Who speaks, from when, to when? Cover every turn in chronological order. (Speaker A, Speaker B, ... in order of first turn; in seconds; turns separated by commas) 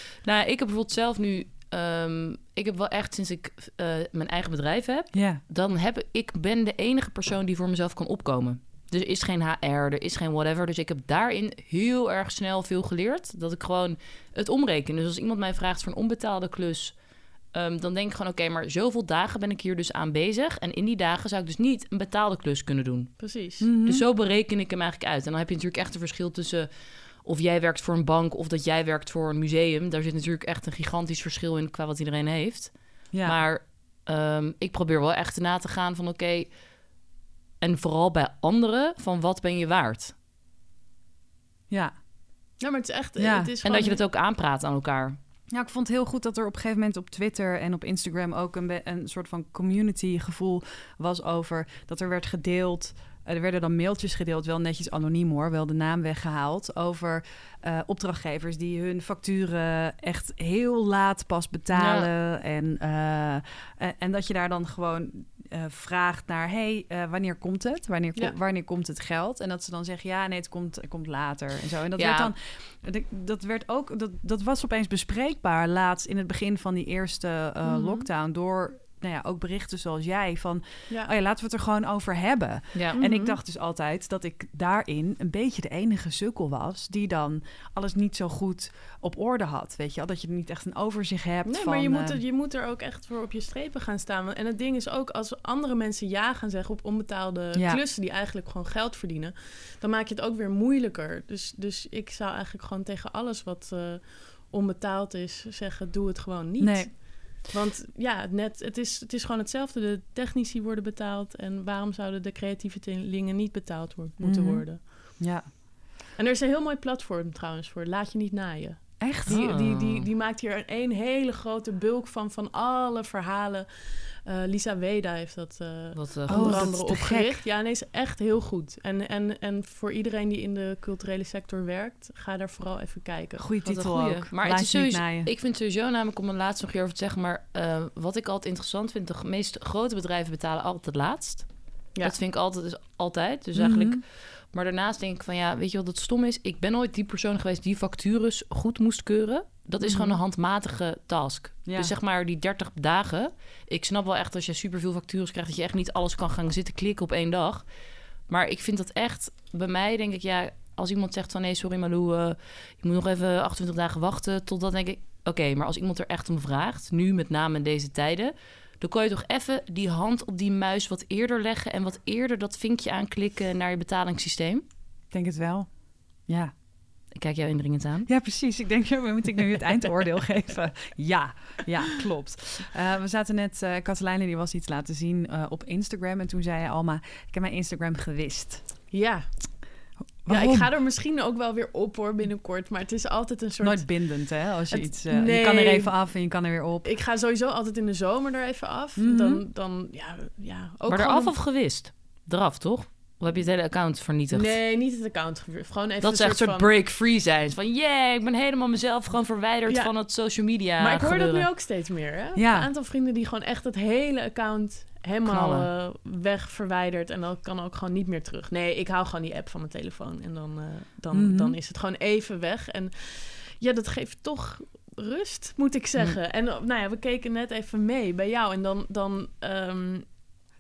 Speaker A: 0.2-17.0, Speaker B: 5.1-5.4, Speaker A: 17.5-23.3, Speaker C: 23.2-23.7, Speaker B: 23.6-24.0, Speaker A: 23.8-36.6, Speaker B: 33.1-33.4, Speaker A: 37.6-40.1, Speaker B: 41.7-42.0, Speaker C: 42.6-44.0, Speaker B: 43.2-43.5, Speaker A: 43.6-45.2, Speaker B: 45.5-92.2, Speaker A: 61.7-62.1, Speaker A: 72.0-72.3, Speaker C: 77.6-78.1, Speaker C: 82.9-83.4, Speaker C: 91.4-115.2, Speaker B: 97.5-97.8, Speaker B: 106.6-106.9, Speaker B: 114.2-115.5, Speaker C: 116.2-133.6, Speaker B: 119.0-119.5, Speaker A: 119.3-120.1, Speaker A: 125.9-126.7, Speaker B: 126.3-127.4, Speaker B: 133.4-135.3, Speaker A: 133.6-174.6, Speaker B: 143.6-144.0, Speaker C: 149.8-150.1, Speaker B: 151.6-151.9, Speaker B: 175.1-176.5, Speaker A: 177.1-178.1, Speaker B: 178.1-188.6, Speaker C: 188.9-189.7, Speaker B: 190.2-190.7, Speaker C: 190.3-201.3, Speaker B: 193.6-196.9, Speaker B: 199.0-199.4, Speaker A: 200.9-204.5, Speaker C: 204.3-206.7, Speaker A: 206.0-211.5, Speaker C: 210.8-230.1, Speaker B: 212.3-212.7, Speaker A: 215.2-215.7, Speaker B: 221.1-221.6